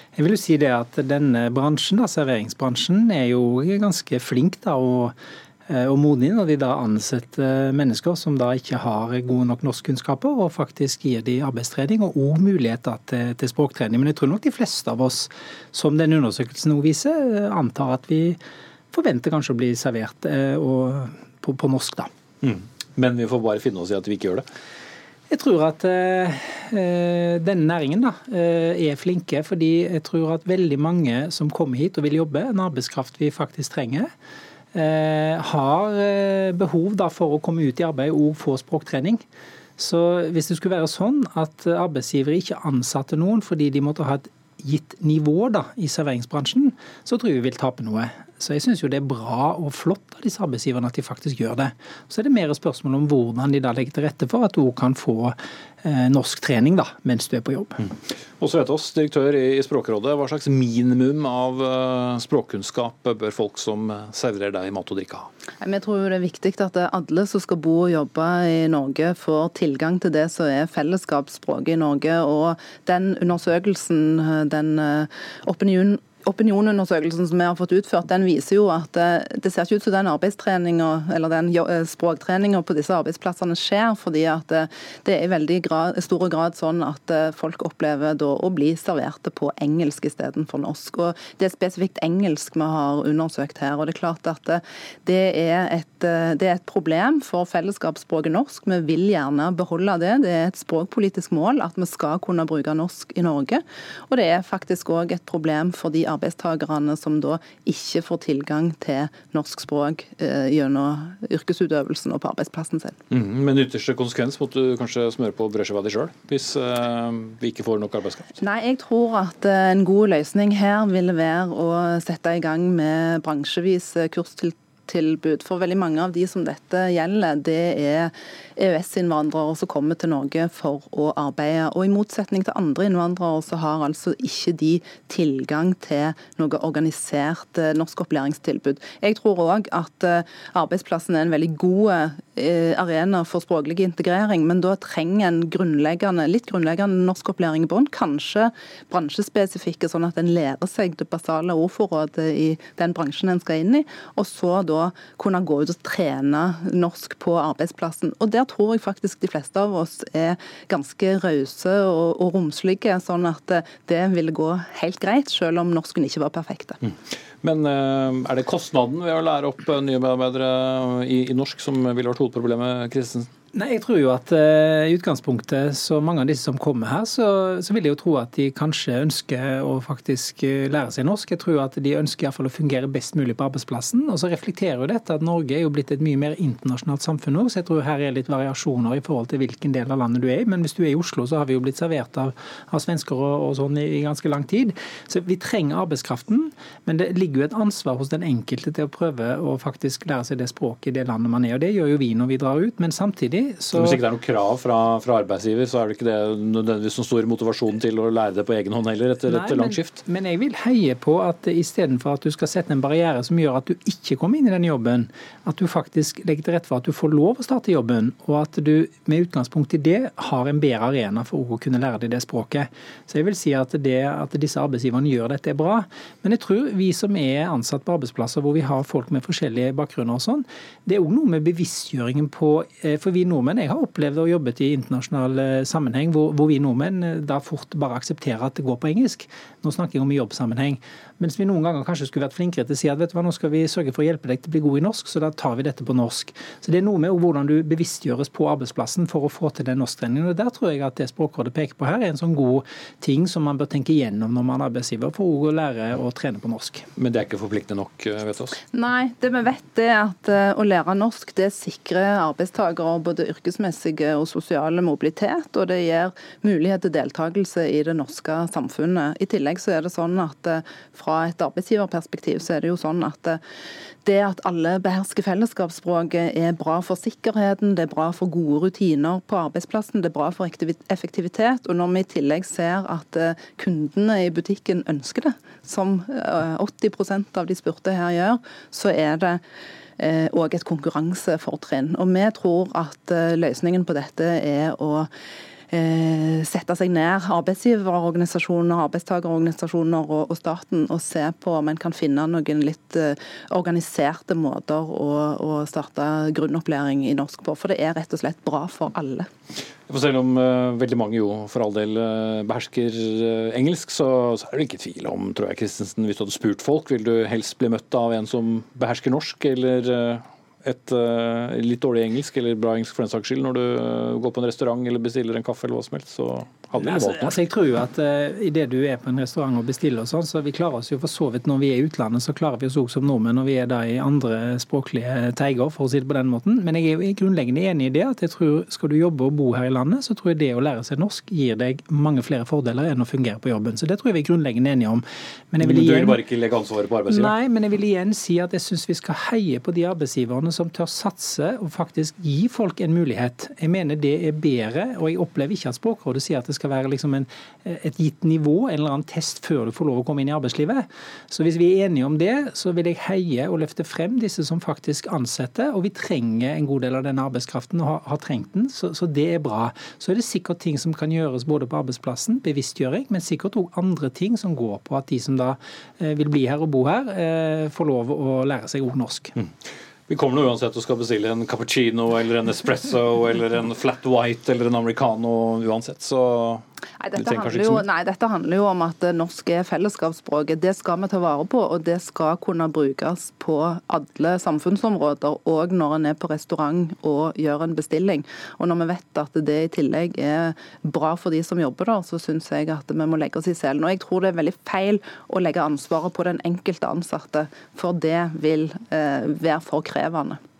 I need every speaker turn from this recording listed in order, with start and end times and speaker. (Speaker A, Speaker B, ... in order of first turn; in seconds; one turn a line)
Speaker A: 0.1-5.1
Speaker A: 5.7-18.4
Speaker A: 18.9-22.1
Speaker B: 22.4-24.4
Speaker A: 25.3-34.1
Speaker A: 34.7-39.2
Speaker A: 39.8-57.8
Speaker B: 58.4-65.3
Speaker C: 65.6-113.0
Speaker B: 113.1-118.3
Speaker C: 118.4-166.8
Speaker B: 167.4-173.3
Speaker A: 173.5-204.0
Speaker B: 203.7-210.0
Speaker A: 209.2-256.8
Speaker B: 256.9-258.6
Speaker C: 258.7-273.4
Speaker C: 274.0-289.4
Speaker C: 290.0-295.1
Speaker C: 295.7-309.3
Speaker B: 309.9-327.4
Speaker A: 326.8-346.2
Speaker B: 345.6-347.4
Speaker A: 347.1-379.3
Speaker B: 380.1-386.6
Speaker C: 387.0-410.4
Speaker B: 387.1-387.9